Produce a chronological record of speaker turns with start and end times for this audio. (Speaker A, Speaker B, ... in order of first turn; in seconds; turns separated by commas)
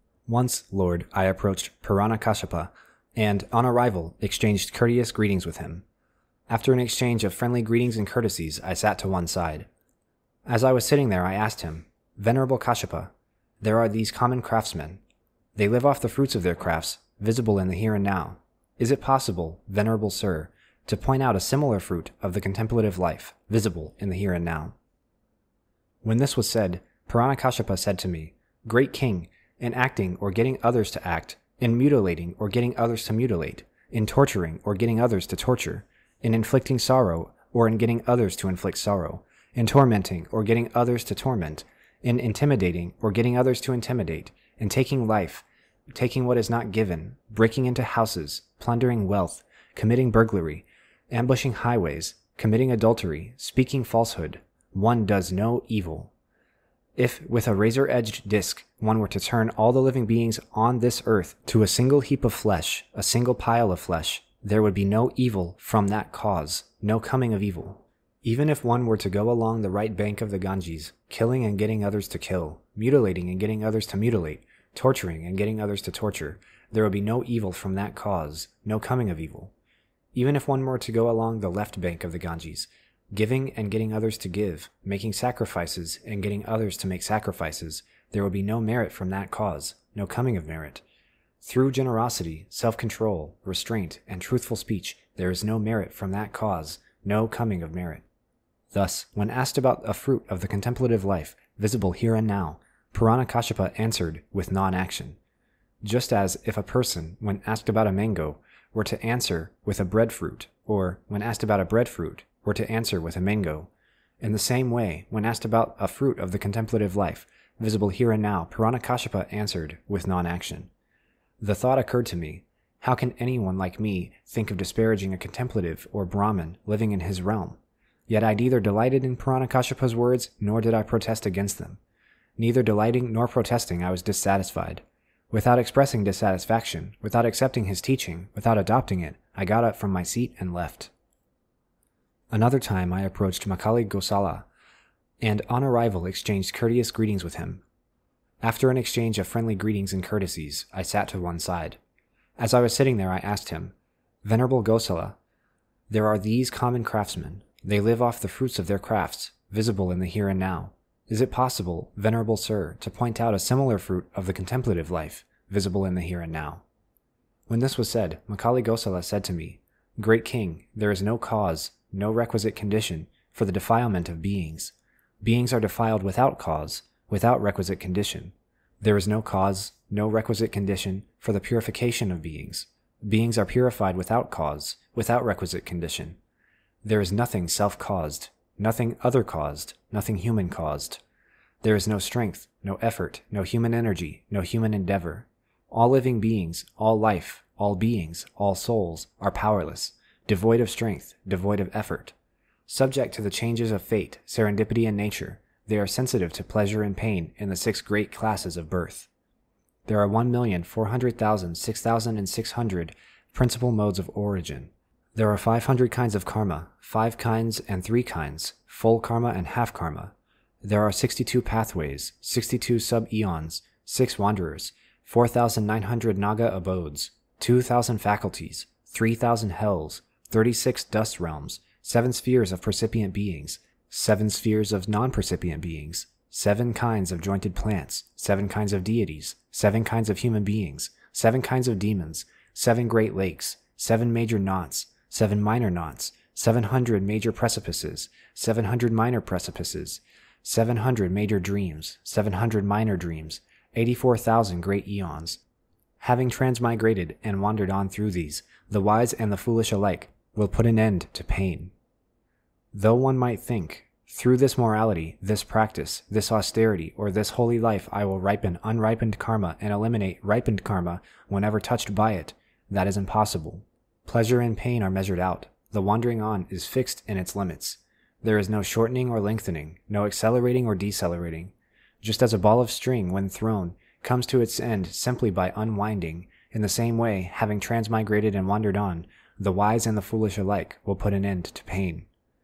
Speaker A: 0.3-5.8, Speaker A: 6.5-9.7, Speaker A: 10.5-15.0, Speaker A: 15.6-24.8, Speaker A: 26.0-56.1, Speaker A: 57.0-79.5, Speaker A: 80.1-90.8, Speaker A: 91.4-98.0, Speaker A: 98.7-105.2, Speaker A: 105.8-113.7, Speaker A: 114.2-120.7, Speaker A: 121.4-131.8, Speaker A: 132.4-140.9, Speaker A: 142.3-144.5, Speaker A: 145.2-147.6, Speaker A: 148.4-151.8, Speaker A: 152.4-155.2, Speaker A: 155.9-166.6, Speaker A: 167.5-186.2, Speaker A: 186.8-191.0, Speaker A: 191.6-202.1, Speaker A: 202.7-209.1, Speaker A: 209.9-255.4, Speaker A: 256.0-261.7, Speaker A: 262.7-292.1